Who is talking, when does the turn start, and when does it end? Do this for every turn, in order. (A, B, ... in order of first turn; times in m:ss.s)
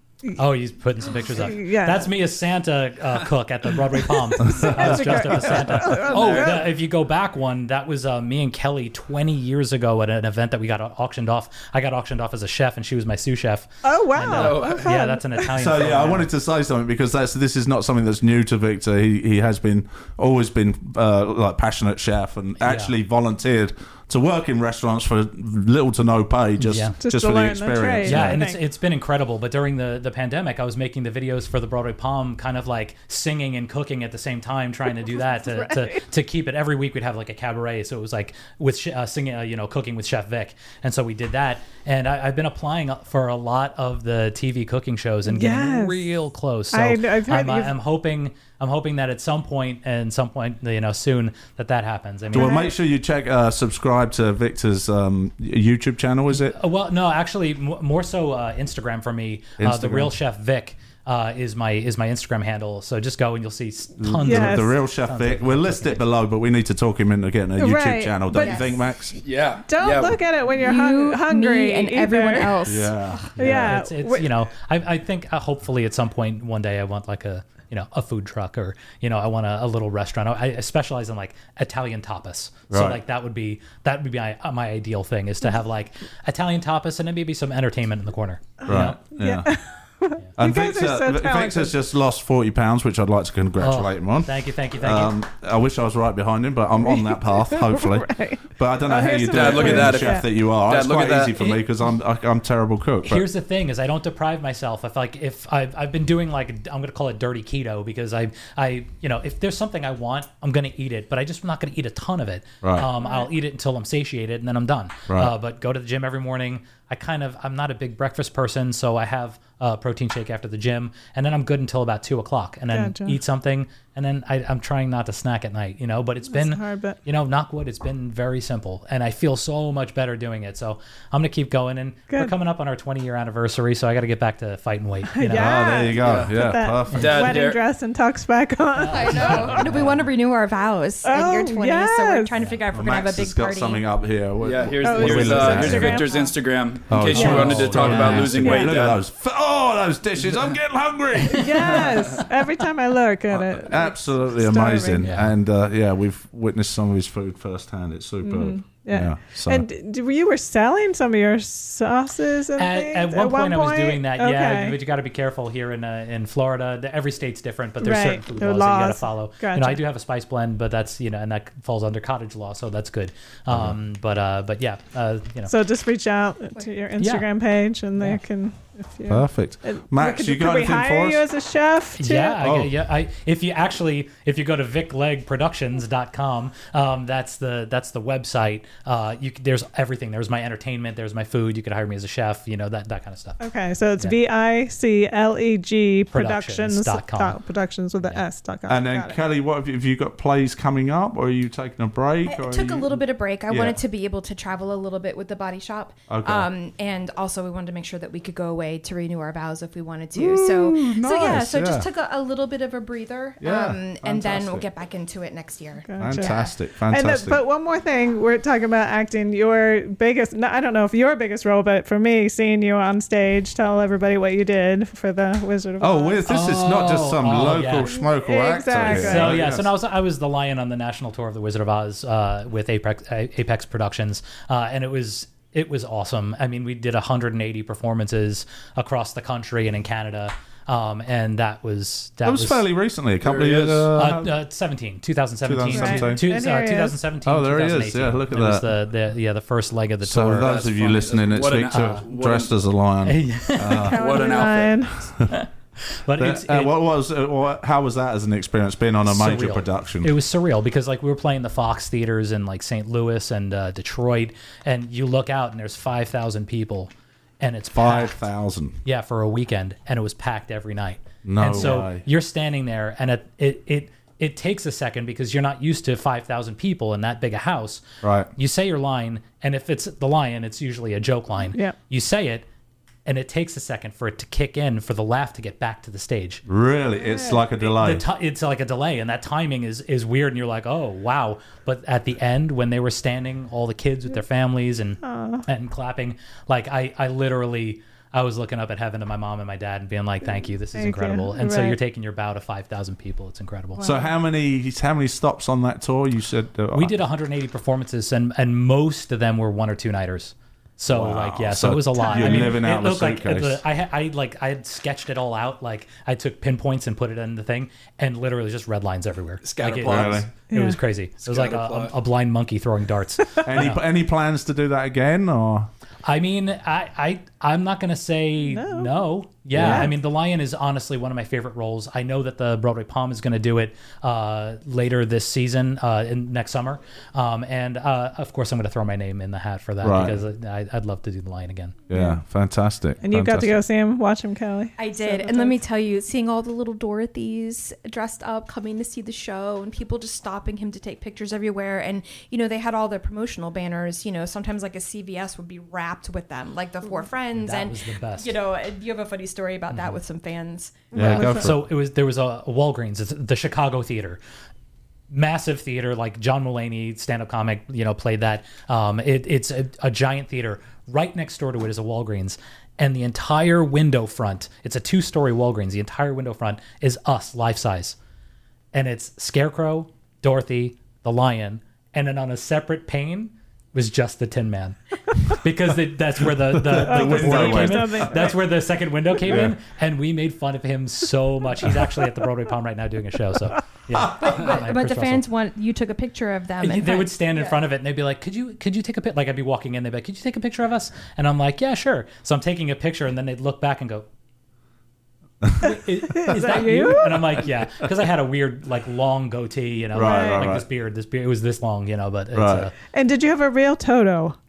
0:00.4-0:16.3 A
0:01.2-0:02.1 B
0:04.3-0:06.6 B
0:05.9-0:06.6 C
0:13.8-0:15.5 B
0:14.2-0:14.9 C
0:15.5-0:28.4 D
0:22.6-0:22.9 A
0:26.6-0:27.0 A
0:27.0-0:28.6 B
0:28.0-0:52.6 A
0:35.0-0:36.0 B
0:45.2-0:46.0 B
0:46.7-0:47.7 B
0:52.3-0:56.6 D
0:52.3-0:52.7 B
0:56.4-1:06.0 A
0:59.6-1:00.1 D
1:04.0-1:09.2 D
1:04.2-1:04.7 B
1:07.6-1:08.7 B
1:08.3-1:08.7 E
1:09.2-1:10.2 C
1:09.7-1:12.6 B
1:10.5-1:13.3 E
1:12.6-1:13.8 D
1:13.4-1:14.3 B
1:13.4-1:29.0 A
1:22.7-1:23.0 D
1:28.6-1:29.6 D
1:28.7-1:31.8 B
1:30.4-1:43.2 D
1:33.6-1:35.2 A
1:36.8-1:40.2 B
1:39.3-1:41.6 C
1:43.0-2:15.6 A
1:52.6-1:52.9 D
1:55.1-1:55.3 D
2:02.7-2:03.2 B
2:06.3-2:07.0 B
2:15.1-2:19.6 B
2:15.3-2:17.3 D
2:15.9-2:17.6 C
2:18.7-2:20.0 A
2:18.8-2:23.8 E
2:21.0-2:22.3 B
2:22.7-2:26.1 D
2:24.4-2:29.0 C
2:24.8-2:26.3 B
2:26.9-2:32.2 D
2:27.1-2:28.6 A
2:27.1-2:28.7 B
2:31.3-2:35.1 B
2:33.3-2:39.6 D
2:35.0-2:35.3 A
2:38.2-2:44.8 B
2:42.6-2:55.5 A
2:47.8-2:49.8 B
2:53.5-2:53.8 D
2:55.5-3:02.4 B
2:57.0-2:57.3 A
2:59.1-3:01.2 D
3:02.0-3:13.4 A
3:02.4-3:02.7 D
3:13.4-3:19.2 B
3:16.1-3:17.4 A
3:18.7-3:23.8 D
3:22.2-3:36.5 E
3:26.1-3:26.5 D
3:30.1-3:31.9 D
3:33.4-3:34.6 D
3:35.9-3:46.2 B
3:36.0-3:37.4 D
3:45.8-3:49.7 D
3:46.3-3:47.9 A
3:48.0-3:49.4 B
3:48.8-4:02.6 A
4:02.2-4:04.3 D
4:03.2-4:03.9 C
4:03.9-4:10.8 A
4:05.4-4:06.2 D
4:05.7-4:07.0 B
4:07.2-4:08.7 D
4:10.0-4:14.0 D
4:10.4-4:12.5 C
4:11.6-4:12.0 A
4:13.0-4:13.9 A
4:13.7-4:15.1 B
4:13.9-4:14.8 C
4:15.3-4:16.8 A
4:16.2-4:20.1 D
4:19.0-4:28.2 A
4:27.7-4:28.8 D
4:28.8-4:42.4 A
4:31.2-4:32.0 D
4:38.0-4:38.3 D
4:43.0-4:46.4 A
4:46.4-4:48.0 D
4:47.0-4:47.4 B
4:47.6-5:03.8 A
4:55.0-4:55.4 B
5:00.7-5:01.8 B
5:03.8-5:04.1 B
5:03.8-5:06.9 D
5:06.7-5:23.8 A
5:10.9-5:13.6 D
5:12.0-5:12.6 B
5:19.4-5:20.3 C
5:19.8-5:20.3 D
5:20.5-5:20.8 B
5:21.2-5:21.9 C
5:23.4-5:25.7 D
5:26.0-5:41.8 A
5:28.5-5:29.0 B
5:29.5-5:29.9 D
5:29.6-5:29.9 B
5:39.8-5:40.2 D
5:41.9-5:43.6 D
5:41.9-5:42.2 B
5:43.0-5:45.6 B
5:44.8-6:00.9 E
5:57.4-5:58.4 A
5:59.7-6:00.0 A
6:00.9-6:01.5 B
6:00.9-6:01.6 D
6:00.9-6:04.2 A
6:05.1-6:18.0 A
6:18.7-6:35.2 A
6:26.5-6:28.3 D
6:26.8-6:28.4 B
6:29.2-6:29.5 D
6:33.9-6:34.3 D
6:34.1-6:37.5 E
6:36.6-6:44.1 A
6:45.6-6:52.7 A
6:46.1-6:47.4 B
6:49.9-6:50.5 B
6:49.9-6:50.6 D
6:52.3-6:52.7 D
6:52.9-6:54.4 B